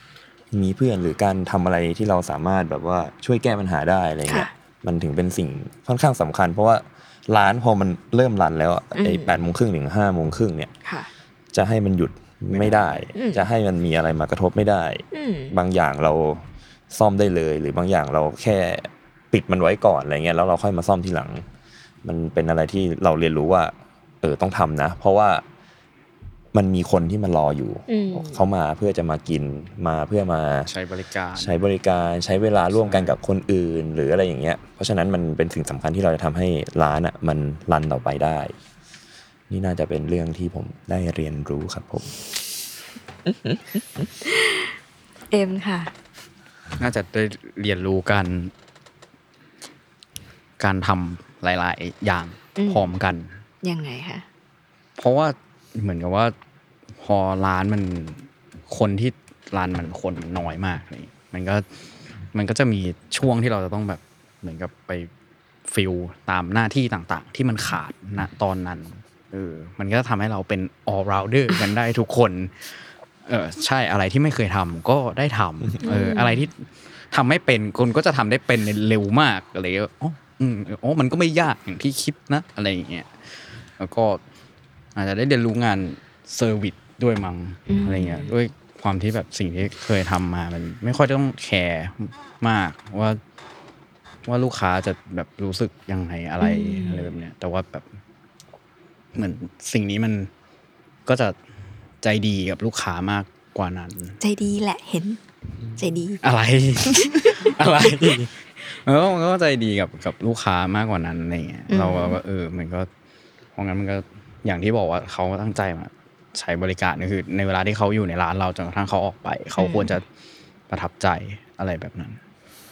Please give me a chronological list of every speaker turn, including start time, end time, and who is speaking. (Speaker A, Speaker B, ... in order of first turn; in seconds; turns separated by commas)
Speaker A: 0.5-10.7, Speaker B: 4.2-4.5, Speaker B: 8.9-9.4, Speaker B: 10.8-11.1, Speaker A: 11.5-21.4, Speaker C: 12.5-13.0, Speaker B: 13.1-13.4, Speaker B: 15.1-15.6, Speaker A: 22.0-25.4, Speaker A: 26.5-30.7, Speaker B: 27.9-28.4, Speaker C: 30.7-31.6, Speaker A: 31.4-38.5, Speaker C: 32.7-33.2, Speaker A: 39.5-42.2, Speaker B: 44.2-44.7, Speaker B: 45.3-45.9, Speaker C: 46.8-48.5, Speaker C: 50.6-53.3, Speaker B: 52.6-52.9, Speaker B: 53.6-54.2, Speaker C: 55.0-56.3, Speaker C: 57.0-61.6, Speaker C: 62.3-65.1, Speaker C: 65.7-72.7, Speaker C: 73.2-84.2, Speaker B: 75.8-76.5, Speaker C: 85.0-93.2, Speaker B: 87.7-88.3, Speaker C: 94.2-97.9, Speaker B: 96.4-97.1, Speaker C: 99.1-100.3, Speaker C: 101.0-101.4, Speaker C: 102.0-104.2, Speaker B: 104.2-105.2, Speaker B: 105.8-106.2, Speaker C: 106.2-112.9, Speaker B: 107.0-107.3, Speaker B: 111.7-112.2, Speaker C: 113.5-120.0, Speaker B: 119.5-119.9, Speaker C: 120.7-122.2